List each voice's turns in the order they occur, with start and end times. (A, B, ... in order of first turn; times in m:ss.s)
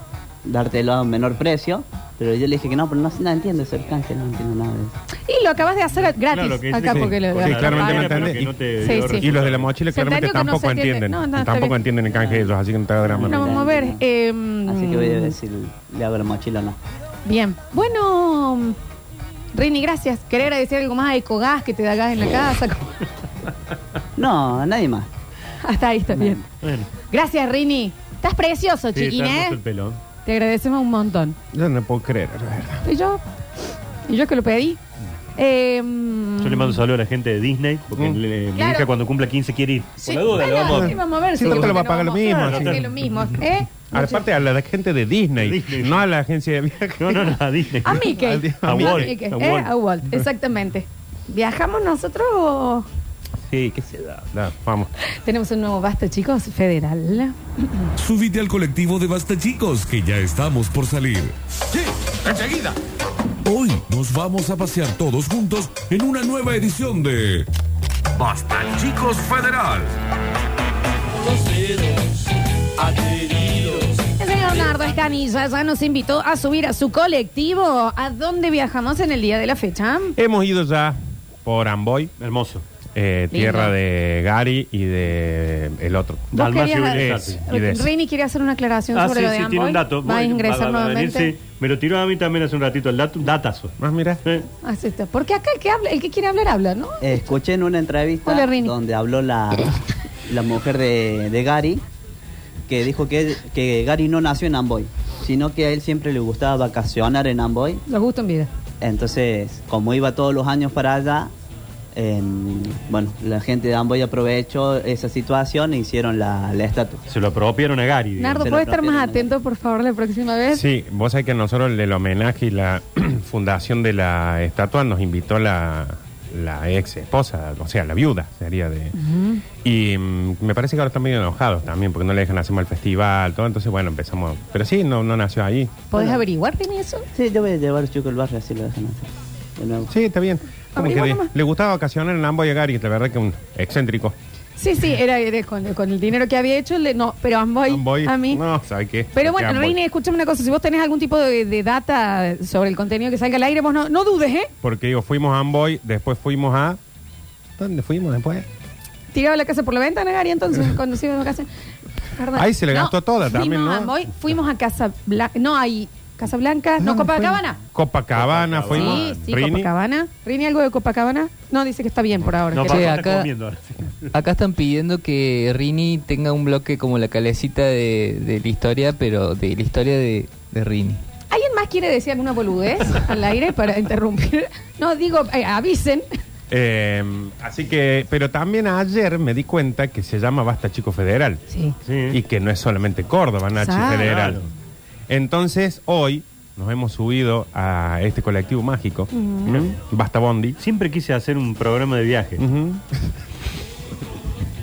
0:00.4-0:04.9 A
0:05.2-0:09.3 B
0:06.3-0:09.7 C
0:06.9-0:13.6 D
0:09.9-0:11.8 B
0:12.2-0:12.5 A
0:13.0-0:14.0 A
0:13.2-0:15.4 B
0:14.6-0:16.8 A
0:17.2-0:18.8 B
0:19.5-0:23.0 B
0:24.2-0:25.1 A
0:25.6-0:26.4 B
0:26.6-0:26.9 C
0:27.1-0:29.6 B
0:28.9-0:30.0 C
0:30.2-0:31.4 B
0:31.5-0:32.8 D
0:32.8-0:33.2 B
0:34.1-0:34.8 B
0:35.4-0:36.8 B
0:36.4-0:42.9 C
0:37.9-0:38.2 D
0:38.6-0:38.9 B
0:40.0-0:44.2 B
0:40.6-0:42.8 D
0:43.9-0:49.1 D
0:45.4-0:46.0 C
0:47.0-0:49.7 C
0:47.8-0:52.9 B
0:53.5-0:54.9 D
0:55.0-0:57.9 B
0:58.0-1:02.8 E
1:03.4-1:07.5 E
1:08.2-1:09.9 E
1:11.2-1:12.2 E
1:12.8-1:14.0 E
1:14.2-1:20.2 B
1:20.2-1:22.1 D
1:22.2-1:22.6 C
1:22.9-1:27.9 D
1:23.3-1:23.7 B
1:26.3-1:27.4 C
1:26.3-1:31.3 B
1:28.9-1:33.7 C
1:33.8-1:34.2 D
1:34.6-1:37.2 B
1:37.0-1:41.8 A
1:38.2-1:38.7 B
1:42.7-1:47.8 A
1:47.9-1:48.5 B
1:48.8-1:51.3 A
1:51.9-1:57.0 A
1:57.1-1:58.5 C
1:58.2-2:00.6 B
1:58.4-1:59.3 A
2:00.5-2:08.9 D
2:08.9-2:09.4 B
2:09.6-2:15.8 D
2:15.9-2:17.1 B
2:16.0-2:16.2 A
2:17.1-2:19.9 A
2:19.9-2:24.1 D
2:20.8-2:21.3 B
2:24.6-2:28.4 B
2:27.7-2:29.8 D
2:29.1-2:34.5 B
2:34.6-2:36.8 D
2:37.6-2:38.5 D
2:39.1-2:41.5 B
2:42.1-2:47.6 B
2:42.3-2:43.9 D
2:46.8-2:49.7 D
2:48.1-2:49.3 C
2:48.7-2:52.9 B
2:52.5-2:54.1 C
2:52.6-2:53.3 F
2:54.1-3:01.0 F
3:01.3-3:06.0 B
3:06.5-3:11.4 D
3:11.5-3:11.8 B
3:11.8-3:12.2 C
3:12.1-3:14.4 D
3:13.6-3:14.1 B
3:14.0-3:14.5 C
3:15.1-3:20.6 D
3:19.1-3:19.6 B
3:20.6-3:22.4 C
3:22.4-3:23.1 D